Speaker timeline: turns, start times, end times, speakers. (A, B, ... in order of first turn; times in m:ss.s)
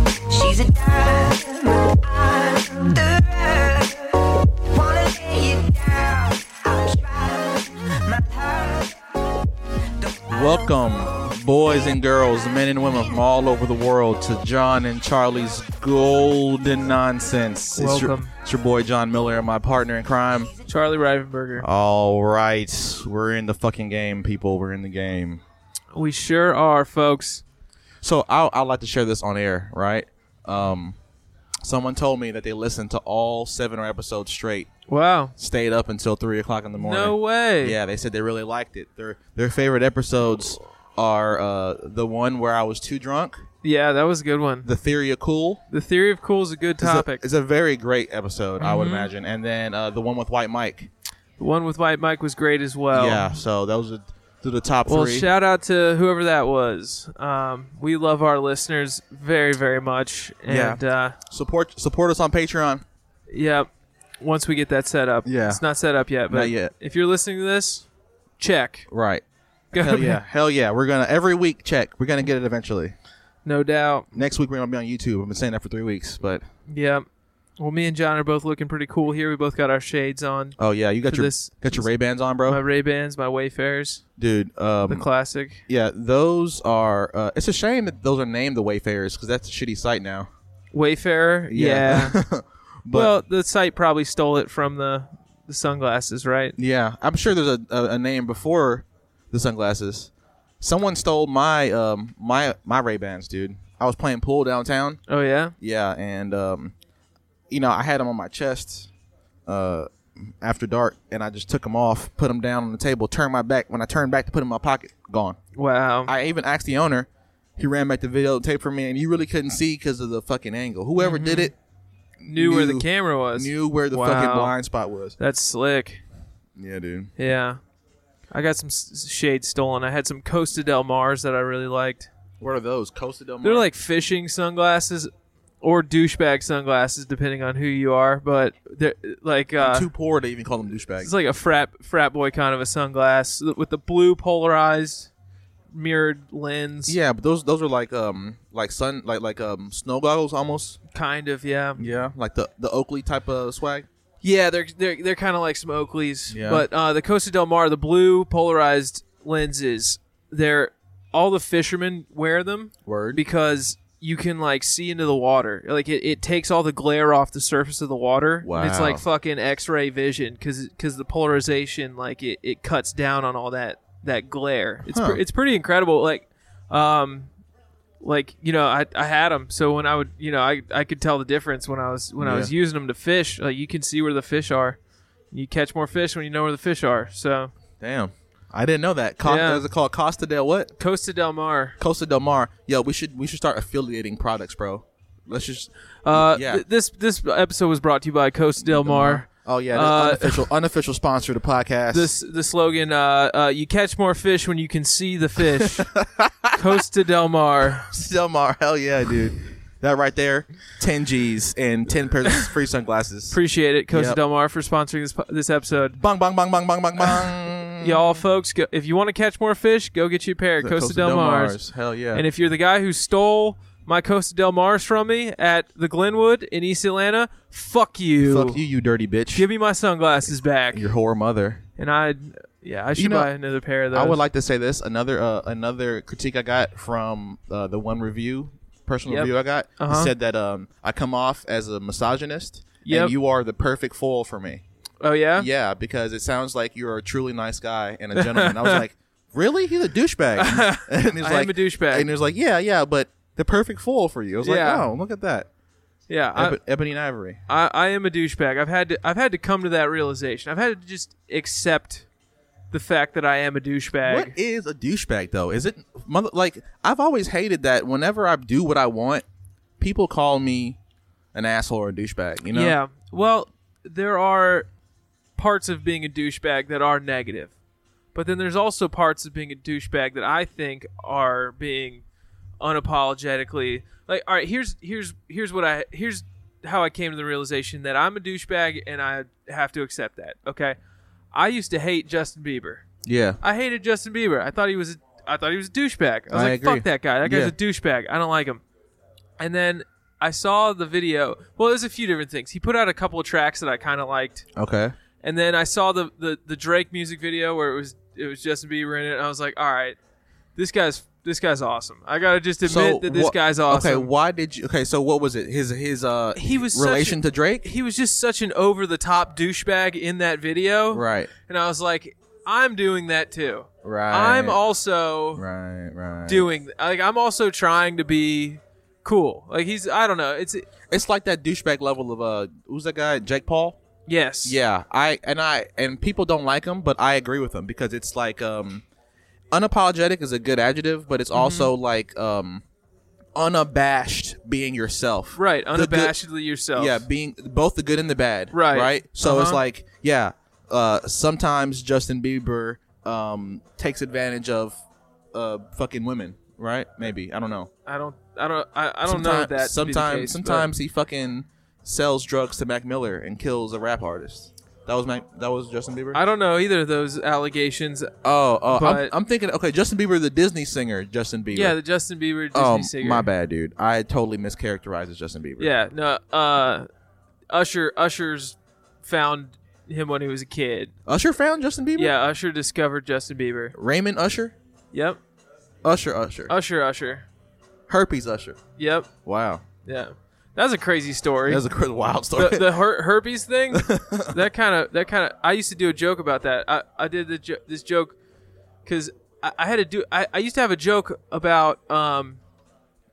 0:00.3-0:09.0 A
0:10.0-0:11.1 A
0:10.3-0:20.5 B
0:17.7-0:18.3 C
0:20.7-0:21.7 C
0:21.6-0:25.4 B
0:25.9-0:27.4 C
0:28.0-0:31.0 B
0:31.6-0:34.7 B
0:34.9-0:35.3 C
0:35.4-0:43.4 B
0:36.8-0:37.8 C
0:43.6-0:44.7 C
0:44.6-0:45.6 B
0:45.7-0:47.2 C
0:46.8-0:50.9 B
0:48.6-0:49.1 C
0:51.4-0:53.4 C
0:52.9-0:55.3 B
0:54.9-1:01.2 C
1:00.4-1:02.8 B
1:03.3-1:03.7 C
1:04.2-1:07.8 C
1:05.2-1:05.6 B
1:06.3-1:06.7 B
1:08.4-1:08.9 C
1:08.9-1:12.9 B
1:09.7-1:10.2 C
1:13.4-1:14.1 C
1:14.1-1:16.4 B
1:16.7-1:17.0 C
1:17.6-1:21.9 C
1:20.6-1:22.6 B
1:22.4-1:24.0 C
1:24.2-1:25.1 B
1:24.9-1:25.6 C
1:25.7-1:30.3 B
1:30.7-1:32.2 C
1:31.5-1:33.1 B
1:32.9-1:36.6 C
1:36.6-1:45.0 B
1:45.1-1:45.5 C
1:45.6-1:46.7 B
1:47.5-1:48.9 B
1:49.4-1:55.4 B
1:55.5-1:56.1 C
1:56.0-2:01.5 B
2:01.0-2:01.5 C
2:02.2-2:05.2 B
2:02.3-2:04.5 C
2:05.2-2:06.0 C
2:06.6-2:07.1 B
2:07.2-2:07.6 C
2:08.3-2:12.1 C
2:12.4-2:13.7 B
2:13.4-2:15.1 C
2:15.6-2:19.9 C
2:19.6-2:21.1 B
2:21.0-2:25.1 C
2:25.7-2:27.0 C
2:26.8-2:30.8 B
2:30.9-2:31.8 C
2:31.8-2:33.9 B
2:34.2-2:57.3 C
2:36.3-2:36.7 B
2:42.8-2:43.2 B
2:48.4-2:49.0 B
2:54.9-2:55.2 B
2:58.0-3:04.8 C
3:02.2-3:02.5 B
3:05.3-3:07.5 C
3:07.8-3:10.7 B
3:09.2-3:09.6 C
3:10.8-3:11.8 C
3:11.8-3:16.6 B
3:16.0-3:20.5 C
3:18.6-3:22.1 B
3:21.9-3:25.9 C
3:25.6-3:26.8 B
3:26.6-3:27.8 C
3:27.7-3:33.4 B
3:33.3-3:36.0 C
3:33.9-3:34.2 B
3:35.9-3:38.2 B
3:37.8-3:41.6 C
3:40.6-3:42.2 B
3:42.1-3:48.6 C
3:48.2-3:49.4 B
3:49.3-3:50.9 C
3:50.7-3:51.6 B
3:51.8-3:54.2 C
3:53.0-3:53.3 B
3:53.9-4:04.6 B
3:59.1-4:00.1 C
4:02.8-4:03.1 C
4:05.0-4:05.5 C
4:05.4-4:15.5 B
4:08.2-4:08.8 C
4:10.4-4:12.1 C
4:14.4-4:14.9 C
4:16.1-4:16.6 C
4:16.3-4:17.4 B
4:17.5-4:22.0 C
4:22.7-4:24.3 C
4:24.0-4:29.2 B
4:29.8-4:30.8 B
4:31.3-4:32.8 B
4:32.5-4:34.7 C
4:35.4-4:37.5 C
4:38.1-4:42.0 C
4:42.6-4:50.8 C
4:51.3-4:52.8 C
4:53.0-4:53.4 B
4:53.4-4:58.6 C
4:56.3-4:57.5 B
4:59.4-5:04.4 C
5:04.5-5:04.9 B
5:05.2-5:10.0 C
5:10.6-5:14.1 C
5:12.6-5:17.7 B
5:16.3-5:25.4 C
5:20.9-5:21.3 B
5:23.8-5:24.6 B
5:25.4-5:26.5 B
5:26.3-5:30.7 C
5:30.9-5:33.8 B
5:34.1-5:34.6 C
5:34.4-5:38.8 B
5:39.5-5:42.6 B
5:41.3-5:41.7 C
5:43.3-5:46.2 B
5:45.3-5:47.0 C
5:46.7-5:57.7 B
5:48.5-5:49.6 C
5:57.8-6:00.7 C
5:59.0-6:06.2 B
6:06.1-6:08.1 C
6:08.2-6:11.8 B
6:08.7-6:09.1 C
6:11.5-6:13.3 C
6:12.5-6:15.7 B
6:15.6-6:16.9 C
6:17.5-6:20.9 C
6:21.0-6:22.1 B
6:22.0-6:23.7 C
6:23.7-6:24.5 B
6:24.9-6:25.2 C
6:25.8-6:26.5 B
6:26.5-6:27.3 C
6:27.9-6:28.6 B
6:28.8-6:29.1 C
6:29.2-6:29.6 B
6:29.8-6:31.6 C
6:31.5-6:32.8 B
6:32.4-6:38.2 C
6:33.7-6:34.4 B
6:38.8-6:42.4 C